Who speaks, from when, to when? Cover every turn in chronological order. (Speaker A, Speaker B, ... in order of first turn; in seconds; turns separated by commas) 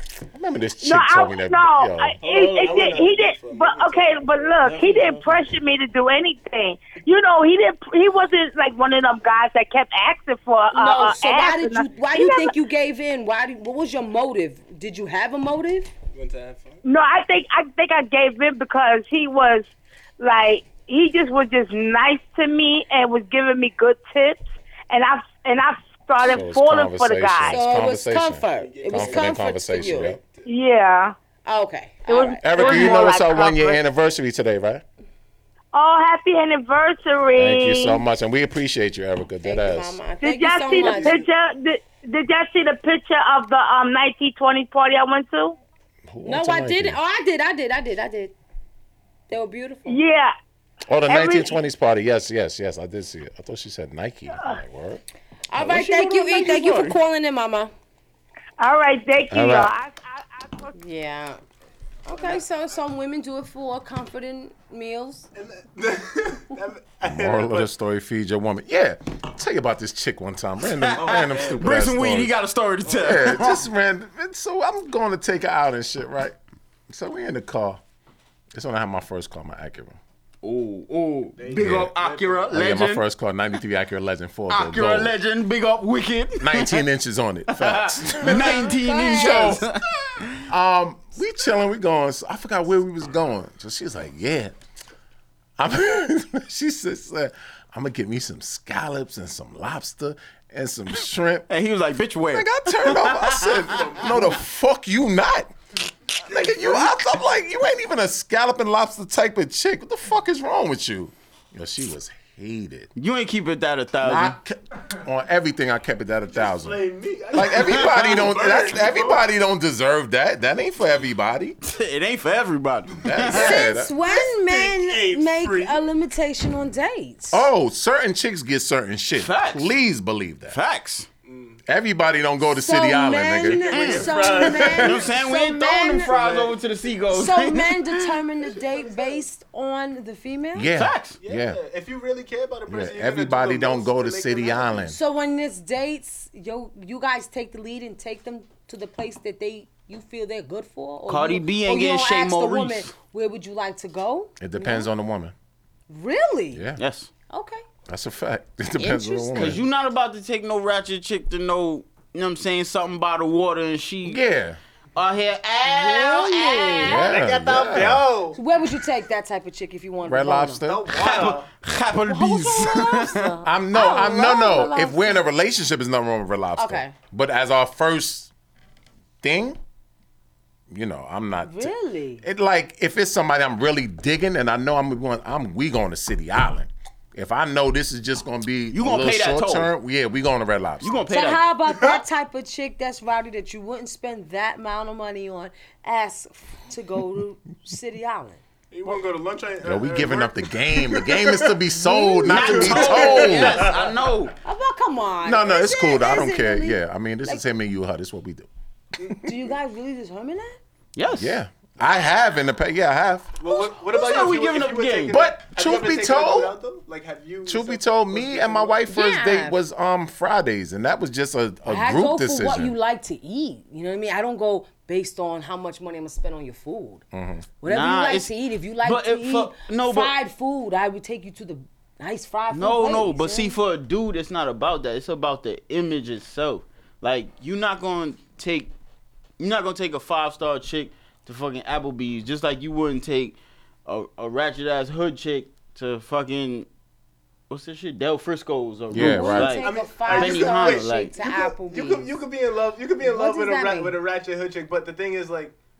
Speaker A: 0.3-2.2, Speaker B: 0.8-12.5, Speaker C: 2.2-5.2, Speaker D: 4.6-5.1, Speaker E: 10.7-15.9, Speaker C: 16.1-16.8, Speaker B: 16.8-27.6, Speaker A: 26.2-30.2, Speaker E: 27.4-30.1, Speaker C: 28.6-30.5, Speaker B: 30.4-31.1, Speaker E: 31.4-33.1, Speaker B: 32.1-33.6, Speaker A: 32.4-34.8, Speaker B: 35.7-38.0, Speaker A: 37.4-40.0, Speaker E: 39.4-41.2, Speaker B: 40.2-45.5, Speaker C: 40.7-41.3, Speaker A: 46.1-47.0, Speaker E: 46.2-48.3, Speaker E: 49.3-50.0, Speaker B: 49.9-50.3, Speaker A: 50.9-55.0, Speaker B: 51.0-51.6, Speaker B: 54.3-54.6, Speaker E: 55.5-57.7, Speaker A: 55.6-55.9, Speaker D: 55.7-56.9, Speaker B: 58.6-60.7, Speaker A: 59.3-59.7, Speaker E: 60.7-61.4, Speaker E: 62.0-65.3, Speaker C: 62.1-62.4, Speaker C: 65.3-67.7, Speaker A: 67.0-72.3, Speaker D: 70.7-73.6, Speaker C: 71.0-71.6, Speaker C: 72.9-73.4, Speaker A: 72.9-76.3, Speaker A: 76.9-77.8, Speaker A: 78.5-80.0, Speaker D: 80.4-83.0, Speaker C: 81.4-82.6, Speaker A: 81.5-81.9, Speaker A: 82.5-85.1, Speaker D: 84.5-86.8, Speaker A: 86.4-89.7, Speaker D: 87.5-90.4, Speaker E: 88.5-89.6, Speaker A: 90.5-94.5, Speaker A: 95.6-101.5, Speaker D: 101.5-103.7, Speaker A: 102.3-105.5, Speaker C: 103.7-104.3, Speaker A: 106.2-112.9, Speaker C: 106.3-106.9, Speaker D: 113.0-114.4, Speaker A: 114.0-116.8, Speaker C: 116.3-119.2, Speaker A: 117.3-121.6, Speaker D: 121.6-123.4, Speaker A: 123.0-123.9, Speaker E: 123.3-127.5, Speaker C: 123.5-125.8, Speaker A: 127.3-130.6, Speaker D: 129.2-129.7, Speaker D: 130.5-131.1, Speaker C: 131.2-131.6, Speaker A: 131.7-133.9, Speaker E: 132.5-136.1, Speaker C: 133.5-135.1, Speaker D: 133.7-137.9, Speaker C: 136.1-136.6, Speaker E: 137.1-140.7, Speaker C: 138.4-139.2, Speaker A: 140.5-141.6, Speaker D: 140.7-141.2, Speaker C: 141.2-144.9, Speaker A: 142.7-145.0, Speaker E: 144.9-154.9, Speaker D: 151.1-152.9, Speaker A: 154.4-155.3, Speaker E: 155.9-156.6, Speaker A: 156.5-156.8, Speaker D: 156.8-157.1, Speaker E: 157.3-157.6, Speaker A: 157.9-159.6, Speaker E: 158.8-159.6, Speaker D: 159.3-164.2, Speaker A: 164.0-164.6, Speaker D: 164.9-167.2, Speaker E: 165.7-167.1, Speaker A: 166.8-168.1, Speaker C: 167.0-168.4, Speaker E: 168.3-170.6, Speaker A: 170.0-170.9, Speaker C: 170.6-171.5, Speaker D: 170.9-173.3, Speaker E: 172.1-175.2, Speaker A: 173.4-178.3, Speaker E: 176.6-176.9, Speaker A: 179.2-179.6, Speaker A: 180.7-190.9, Speaker E: 181.4-182.2, Speaker D: 188.7-189.7, Speaker D: 190.8-191.4, Speaker E: 191.1-198.4, Speaker C: 191.7-192.0, Speaker C: 198.7-201.6, Speaker A: 199.6-203.7, Speaker E: 201.8-202.4, Speaker C: 202.3-204.1, Speaker D: 202.3-204.3, Speaker E: 204.4-207.4, Speaker A: 205.2-208.5, Speaker E: 209.2-210.6, Speaker D: 210.9-211.4, Speaker A: 211.1-213.3, Speaker C: 213.4-218.8, Speaker D: 213.8-215.2, Speaker A: 215.1-216.6, Speaker A: 217.4-222.7, Speaker E: 218.9-219.6, Speaker E: 221.7-227.0, Speaker A: 227.1-227.4, Speaker E: 227.6-233.6, Speaker D: 227.7-230.1, Speaker D: 232.5-238.7, Speaker D: 239.4-246.7, Speaker D: 247.5-251.1, Speaker A: 248.9-249.6, Speaker E: 248.9-252.1, Speaker C: 249.5-255.6, Speaker E: 253.0-254.0